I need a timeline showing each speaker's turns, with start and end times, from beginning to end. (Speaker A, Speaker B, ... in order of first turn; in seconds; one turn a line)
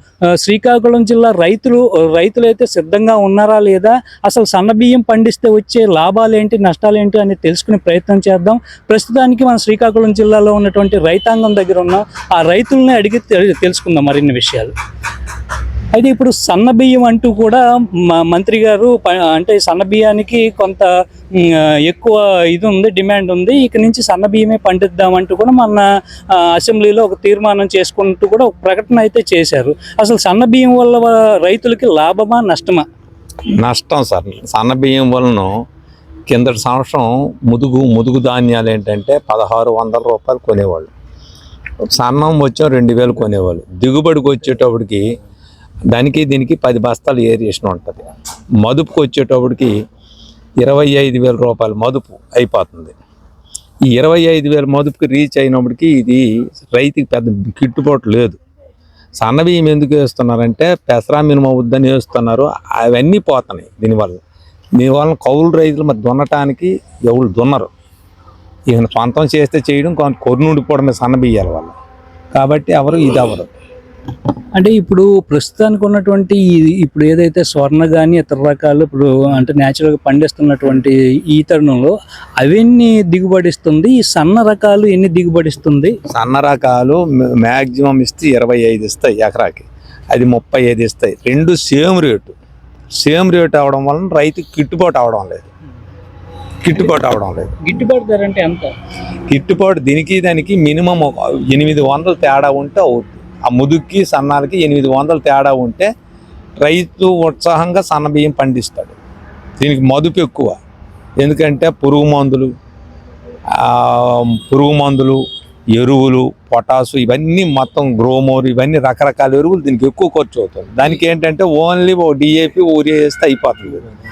Speaker A: 0.4-14.7
Speaker A: 15.9-25.8
Speaker A: 26.4-32.8
Speaker B: 33.6-35.5
Speaker B: 36.3-40.9
Speaker B: 41.9-45.0
Speaker B: 45.9-48.0
Speaker B: 48.6-49.7
Speaker B: 50.6-52.9
Speaker B: 53.9-58.4
Speaker B: 59.2-64.2
Speaker B: 64.8-67.7
Speaker B: 68.7-71.7
Speaker B: 72.3-73.5
Speaker A: 74.5-85.9
Speaker B: 86.1-92.3
Speaker B: 93.0-95.5
Speaker B: 96.6-97.5
Speaker A: 97.6-98.7
Speaker B: 99.3-105.9
Speaker B: 106.6-109.0
Speaker B: 109.6-110.6
Speaker B: 111.2-112.5
Speaker B: 113.6-115.2
Speaker B: 115.7-123.8